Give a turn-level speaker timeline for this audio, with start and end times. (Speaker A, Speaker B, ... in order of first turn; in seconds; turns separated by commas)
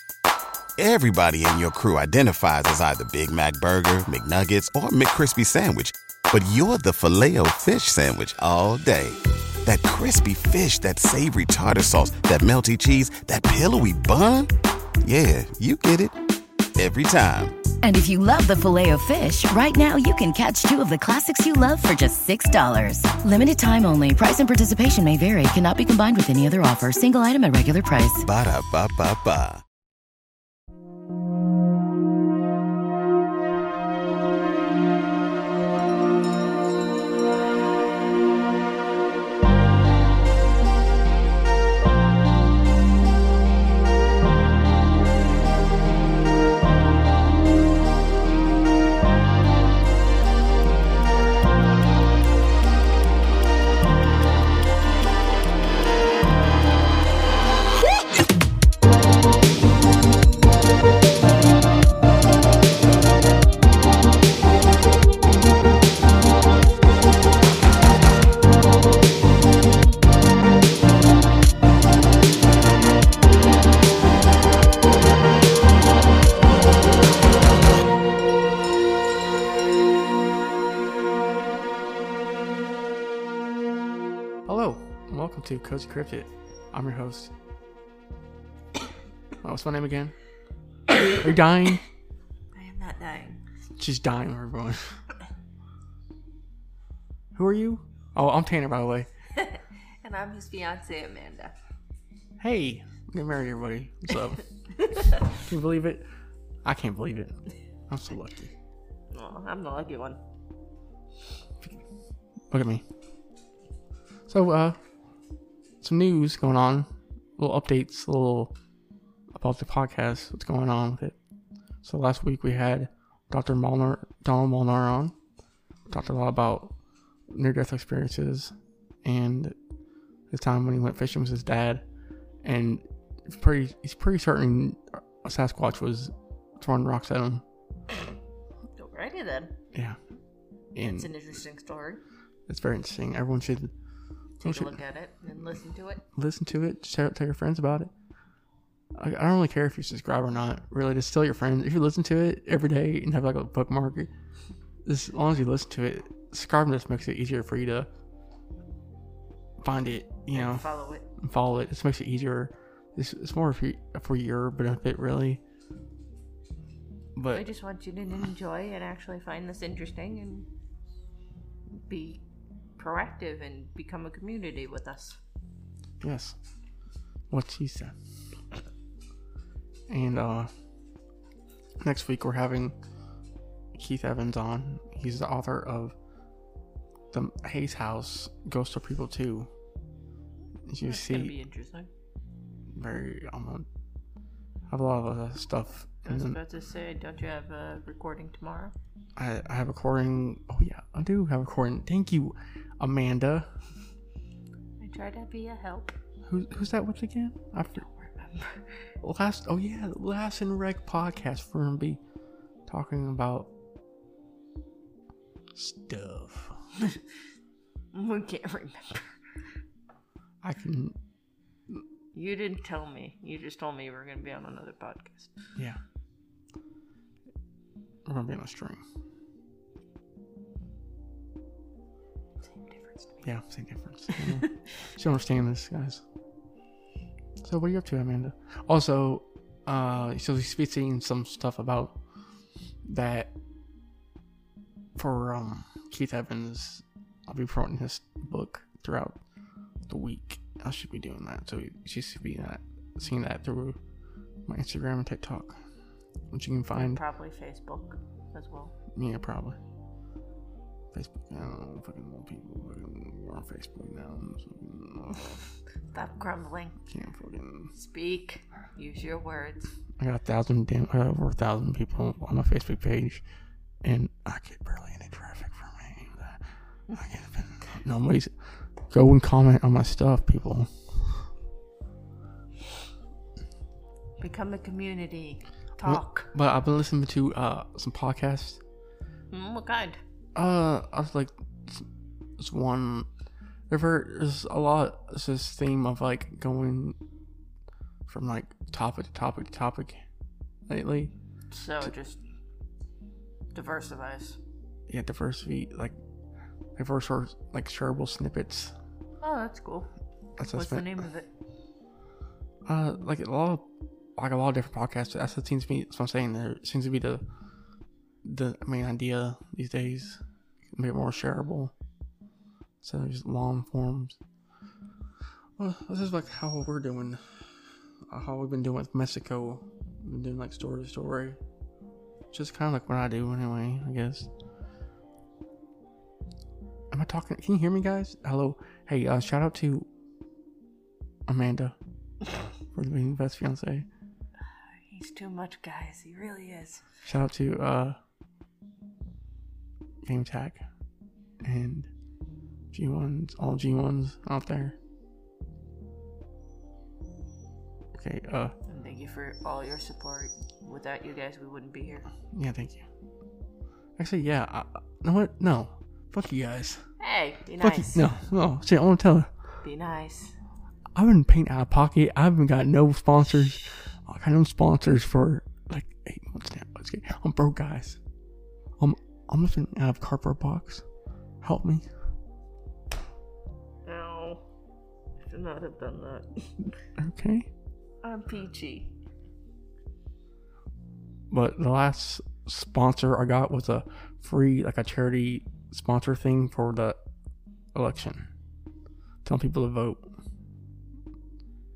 Speaker A: 0.8-14.5, Speaker A: 15.0-16.1, Speaker A: 16.8-17.6, Speaker B: 17.8-28.2, Speaker A: 28.2-29.6, Speaker C: 84.5-87.3, Speaker C: 89.4-90.1, Speaker C: 91.1-91.8, Speaker D: 92.5-93.4, Speaker C: 93.8-95.0, Speaker C: 97.3-99.1, Speaker D: 99.3-101.5, Speaker C: 102.4-104.4, Speaker D: 104.8-105.1, Speaker C: 105.1-106.1, Speaker C: 106.6-108.5, Speaker D: 109.1-110.2, Speaker C: 112.5-112.8, Speaker C: 114.3-114.8, Speaker C: 115.8-118.5, Speaker C: 119.3-121.2, Speaker C: 121.8-125.1, Speaker C: 125.9-126.7, Speaker C: 127.3-129.6, Speaker C: 130.3-131.8, Speaker C: 132.4-137.4, Speaker D: 138.8-139.5, Speaker C: 139.7-140.0, Speaker C: 140.7-141.1, Speaker D: 140.9-142.0, Speaker C: 142.5-143.7, Speaker D: 144.4-146.0, Speaker C: 144.4-144.8, Speaker C: 146.1-147.9, Speaker C: 148.9-154.1, Speaker C: 154.8-157.9, Speaker C: 159.6-160.7, Speaker D: 160.3-161.1, Speaker C: 161.2-165.4, Speaker C: 167.2-167.4, Speaker D: 167.3-170.5, Speaker D: 171.9-172.2, Speaker D: 172.8-175.2, Speaker C: 176.0-176.4, Speaker C: 177.3-177.9, Speaker C: 179.9-180.5, Speaker C: 181.8-182.8, Speaker C: 183.7-185.9, Speaker C: 187.1-189.5, Speaker C: 190.7-191.3, Speaker D: 190.8-191.9, Speaker C: 192.7-193.7, Speaker C: 194.7-196.4, Speaker D: 196.0-198.7, Speaker C: 199.2-203.5, Speaker D: 204.8-206.0, Speaker C: 206.2-207.9, Speaker D: 207.8-208.7, Speaker C: 209.0-212.0, Speaker C: 212.7-213.5, Speaker C: 215.5-216.6, Speaker D: 217.9-219.1, Speaker C: 220.4-221.0, Speaker D: 222.1-225.3, Speaker C: 228.1-228.8, Speaker D: 232.5-233.3, Speaker C: 233.2-236.0, Speaker C: 237.4-242.0, Speaker C: 242.8-243.3, Speaker C: 244.9-249.2, Speaker C: 249.9-253.8, Speaker C: 254.4-255.6, Speaker C: 256.3-257.0, Speaker D: 256.7-258.7, Speaker C: 258.9-259.6, Speaker C: 260.9-265.3, Speaker D: 265.9-266.8, Speaker C: 266.9-267.7, Speaker D: 267.7-269.7, Speaker C: 270.0-273.2, Speaker C: 273.8-276.4, Speaker C: 276.9-278.3, Speaker C: 278.9-280.7, Speaker D: 284.2-286.3, Speaker C: 285.8-288.6, Speaker D: 289.3-290.0, Speaker C: 290.3-291.9, Speaker C: 292.4-293.1, Speaker C: 293.7-297.0, Speaker C: 298.1-300.0, Speaker C: 300.7-301.1, Speaker D: 301.5-302.2, Speaker D: 303.5-304.4, Speaker C: 304.9-306.0, Speaker C: 306.8-308.7, Speaker D: 309.2-309.9, Speaker C: 310.4-311.0, Speaker D: 310.5-311.3, Speaker C: 312.6-317.2, Speaker C: 318.2-321.7, Speaker C: 322.8-324.2, Speaker C: 325.6-327.5, Speaker C: 328.1-331.4, Speaker C: 332.3-334.3, Speaker C: 336.9-339.9, Speaker C: 341.3-341.8, Speaker C: 342.7-343.9, Speaker D: 344.7-346.8, Speaker C: 347.0-348.0, Speaker C: 350.0-350.6, Speaker C: 351.4-351.9, Speaker C: 352.7-354.8, Speaker C: 357.9-358.5, Speaker D: 358.7-362.1, Speaker C: 362.3-362.9, Speaker C: 364.0-366.9, Speaker D: 367.0-368.1, Speaker C: 367.6-369.3, Speaker D: 369.6-370.4, Speaker C: 370.9-378.0, Speaker C: 378.8-380.8, Speaker C: 381.4-381.9, Speaker D: 383.9-384.4, Speaker D: 385.2-386.7, Speaker C: 387.0-387.5, Speaker D: 388.0-388.9, Speaker C: 391.3-397.0, Speaker C: 397.7-398.3, Speaker C: 399.2-400.1